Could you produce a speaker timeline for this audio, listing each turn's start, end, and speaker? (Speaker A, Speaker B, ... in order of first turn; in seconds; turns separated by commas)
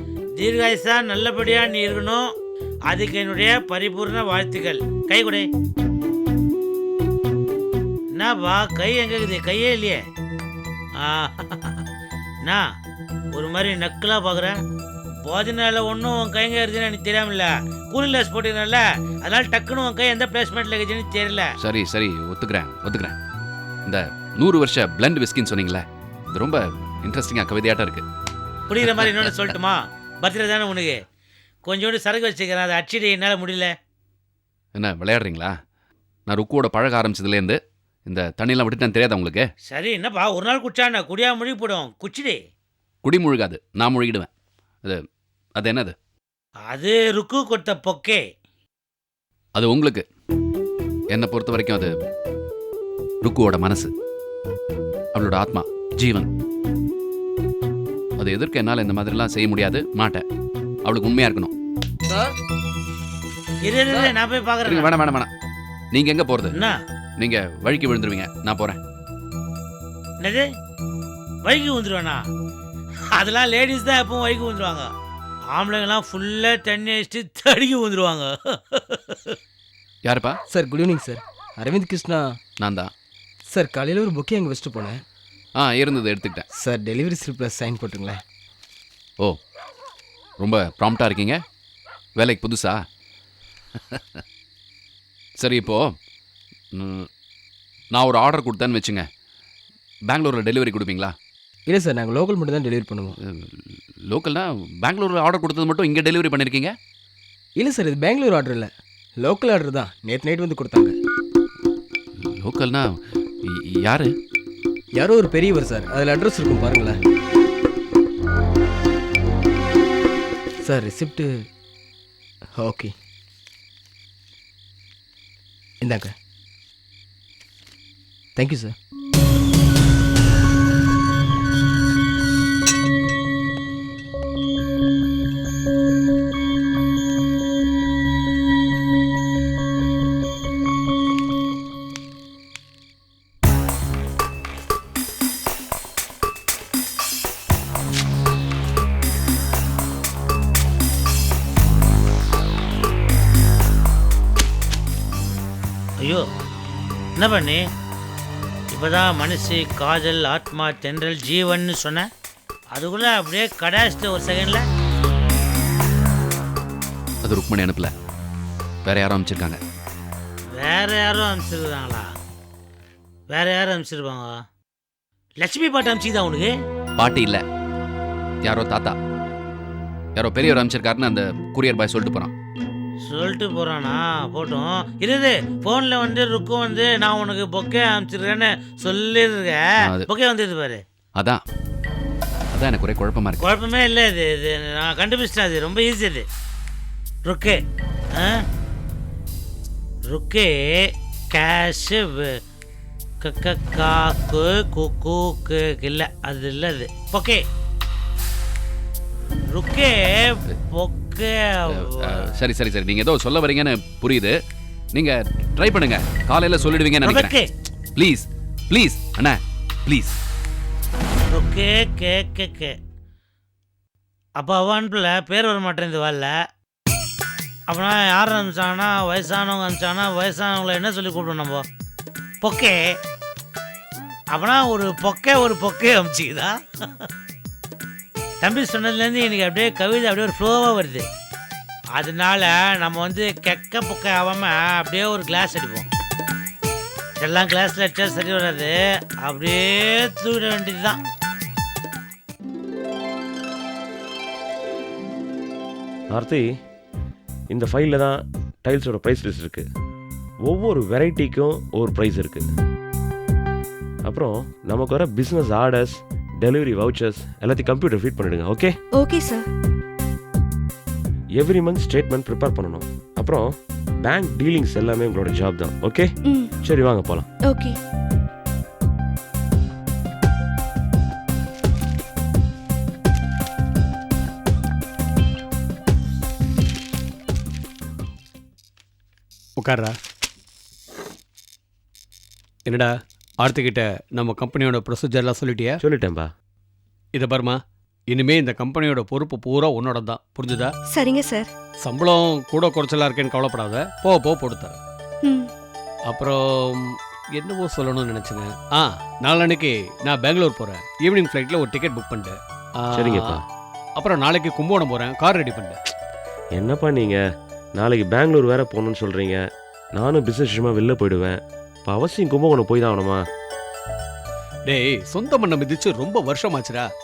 Speaker A: 0.4-2.2, Speaker A: 2.9-5.5, Speaker A: 8.2-10.0, Speaker A: 11.0-11.8, Speaker A: 13.4-14.5, Speaker A: 15.2-21.5, Speaker B: 21.6-23.2, Speaker B: 23.9-28.1, Speaker A: 28.7-31.0, Speaker A: 31.7-33.7, Speaker B: 34.8-35.5, Speaker B: 36.3-39.5, Speaker A: 39.7-42.4, Speaker B: 43.0-44.3, Speaker B: 45.6-46.0, Speaker A: 46.7-48.2, Speaker B: 49.5-50.0, Speaker B: 51.1-51.9, Speaker B: 53.2-53.9, Speaker B: 55.1-56.3, Speaker B: 58.2-60.2, Speaker B: 60.8-61.5, Speaker A: 63.7-64.9, Speaker B: 64.7-65.3, Speaker B: 65.9-66.5, Speaker B: 67.2-68.8, Speaker A: 70.2-70.5, Speaker A: 71.5-72.2, Speaker A: 73.2-74.9, Speaker A: 75.5-79.3, Speaker B: 80.0-80.4, Speaker C: 80.5-82.4, Speaker B: 82.6-82.9, Speaker C: 83.5-85.0, Speaker B: 85.6-86.4, Speaker C: 86.5-88.2, Speaker B: 90.4-91.4, Speaker B: 92.2-92.8, Speaker B: 93.9-94.2, Speaker B: 95.4-96.0, Speaker B: 96.7-97.1, Speaker B: 97.9-99.1, Speaker B: 100.1-101.2, Speaker C: 101.7-103.2, Speaker B: 103.2-106.8, Speaker C: 107.6-111.0, Speaker B: 112.2-114.1, Speaker C: 115.0-117.0, Speaker C: 120.6-121.5, Speaker C: 122.6-123.0, Speaker C: 125.8-126.2, Speaker C: 128.4-128.8, Speaker A: 157.2-157.6, Speaker A: 158.8-162.0, Speaker A: 162.8-164.6, Speaker B: 167.2-167.9, Speaker B: 168.8-169.6, Speaker A: 170.6-172.0, Speaker A: 173.3-174.3, Speaker A: 175.4-176.5, Speaker B: 177.0-177.4, Speaker B: 178.4-179.0, Speaker B: 180.2-182.3, Speaker A: 183.1-189.6, Speaker A: 190.2-190.8, Speaker B: 192.5-193.5, Speaker A: 193.4-196.2, Speaker A: 197.3-197.6, Speaker A: 200.1-202.3, Speaker A: 203.2-207.4, Speaker A: 209.5-212.2, Speaker B: 212.2-214.4, Speaker B: 214.9-217.3, Speaker A: 217.0-217.4, Speaker B: 218.0-220.2, Speaker A: 221.3-222.7, Speaker A: 224.4-226.3, Speaker A: 227.7-231.6, Speaker A: 232.4-232.8, Speaker A: 234.3-236.5, Speaker A: 238.4-241.1, Speaker A: 242.0-245.9, Speaker A: 247.2-248.7, Speaker A: 249.2-251.0, Speaker D: 256.1-256.4, Speaker D: 257.5-259.6, Speaker D: 260.5-262.5, Speaker D: 264.1-268.8, Speaker E: 268.9-269.5, Speaker D: 271.4-277.3, Speaker E: 276.2-276.5, Speaker E: 277.4-277.8, Speaker F: 289.6-289.9, Speaker F: 292.7-295.8, Speaker D: 295.8-296.3, Speaker F: 297.1-297.6, Speaker F: 298.1-300.7, Speaker E: 300.9-301.5, Speaker F: 301.8-304.8, Speaker E: 305.2-305.5, Speaker F: 306.1-313.4, Speaker D: 312.9-313.4, Speaker F: 314.0-315.8, Speaker D: 316.6-317.2, Speaker D: 317.8-319.4, Speaker D: 319.9-323.2, Speaker F: 324.7-326.9